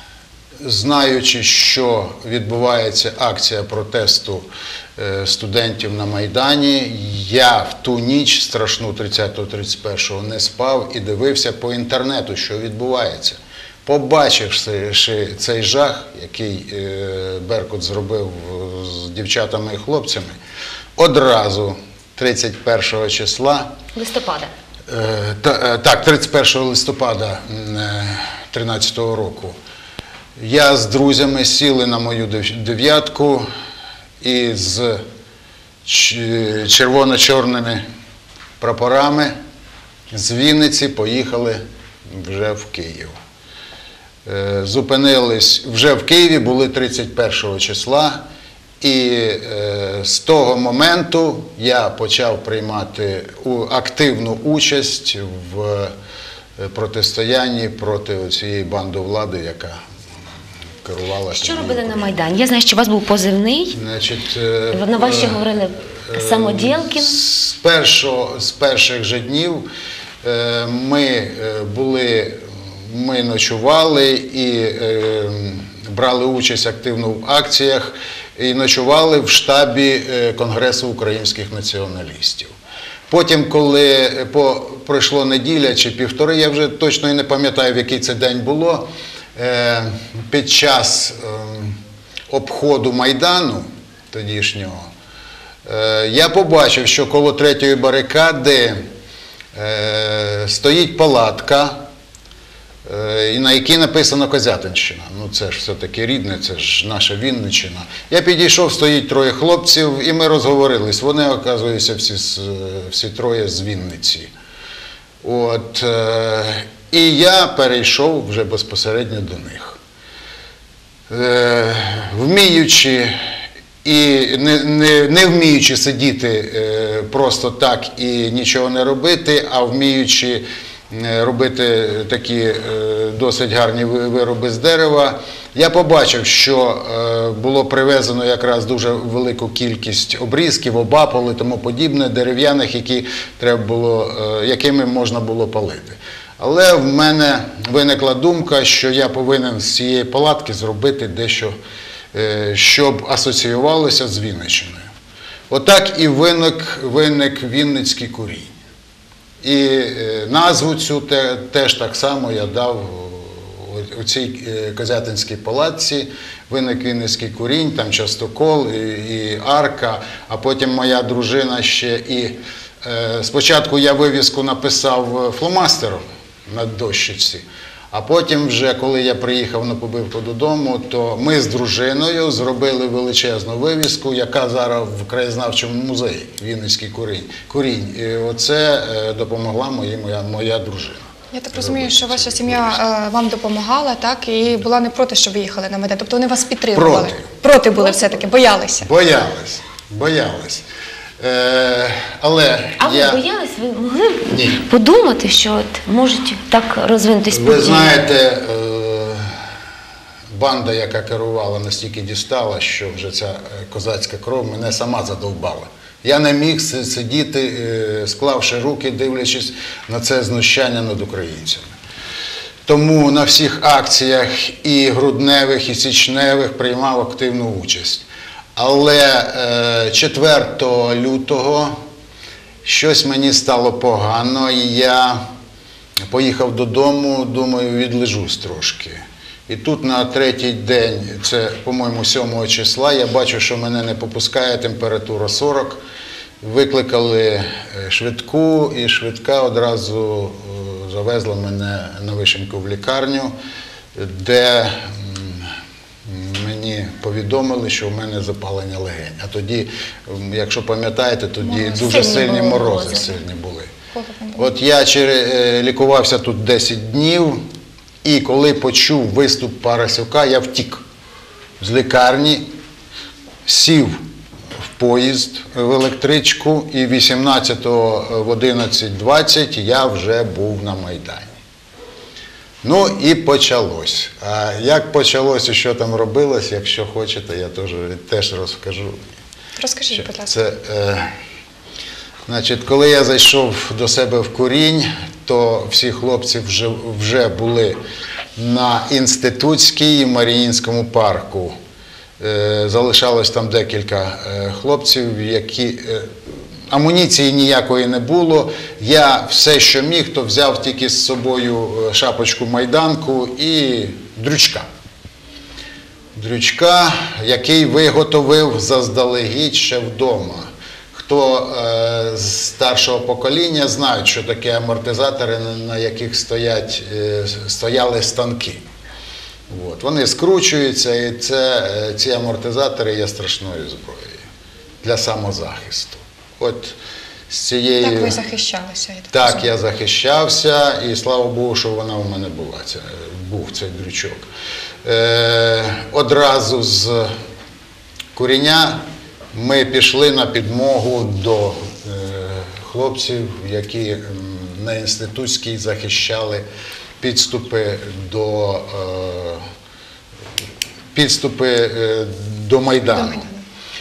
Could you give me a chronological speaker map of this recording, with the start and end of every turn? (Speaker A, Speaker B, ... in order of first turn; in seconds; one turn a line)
Speaker A: 0.6-20.3
Speaker A: 21.0-23.7
Speaker B: 23.9-24.5
Speaker A: 24.9-29.6
Speaker A: 30.4-33.5
Speaker A: 34.2-35.0
Speaker A: 35.8-37.8
Speaker A: 38.6-39.3
Speaker A: 40.1-43.1
Speaker A: 44.2-48.2
Speaker A: 48.8-55.9
Speaker A: 56.6-59.8
Speaker A: 60.8-62.3
Speaker B: 61.3-63.8
Speaker A: 63.7-69.6
Speaker B: 64.7-67.2
Speaker A: 70.2-82.5
Speaker A: 83.1-91.8
Speaker A: 92.3-94.8
Speaker A: 95.6-98.8
Speaker A: 99.5-101.8
Speaker A: 102.8-114.3
Speaker A: 115.2-119.8
Speaker A: 121.1-123.1
Speaker A: 123.8-151.6
Speaker A: 152.1-154.8
Speaker A: 155.5-158.5
Speaker A: 159.4-192.8
Speaker C: 191.3-198.9
Speaker A: 196.7-197.2
Speaker A: 198.8-200.6
Speaker A: 201.2-203.2
Speaker B: 202.8-208.0
Speaker A: 204.3-204.6
Speaker A: 207.3-209.3
Speaker A: 210.3-221.7
Speaker A: 222.6-231.8
Speaker A: 232.6-235.2
Speaker A: 236.1-245.8
Speaker A: 246.4-253.3
Speaker A: 253.9-255.5
Speaker A: 256.1-263.7
Speaker C: 261.6-262.4
Speaker B: 261.7-263.1
Speaker C: 263.9-264.4
Speaker A: 264.4-267.4
Speaker A: 268.0-270.8
Speaker A: 271.6-272.5
Speaker A: 273.4-274.0
Speaker A: 274.8-281.3
Speaker A: 282.6-289.0
Speaker C: 289.6-290.3
Speaker A: 289.9-291.1
Speaker A: 292.2-297.8
Speaker A: 298.4-301.6
Speaker A: 302.2-306.1
Speaker A: 306.7-314.6
Speaker A: 316.1-328.6
Speaker A: 329.5-334.2
Speaker A: 334.8-336.8
Speaker A: 337.3-338.2
Speaker C: 337.8-339.3
Speaker A: 339.1-344.2
Speaker A: 344.8-347.1
Speaker A: 348.1-356.4
Speaker A: 357.0-359.4
Speaker A: 360.9-363.3
Speaker C: 363.0-363.3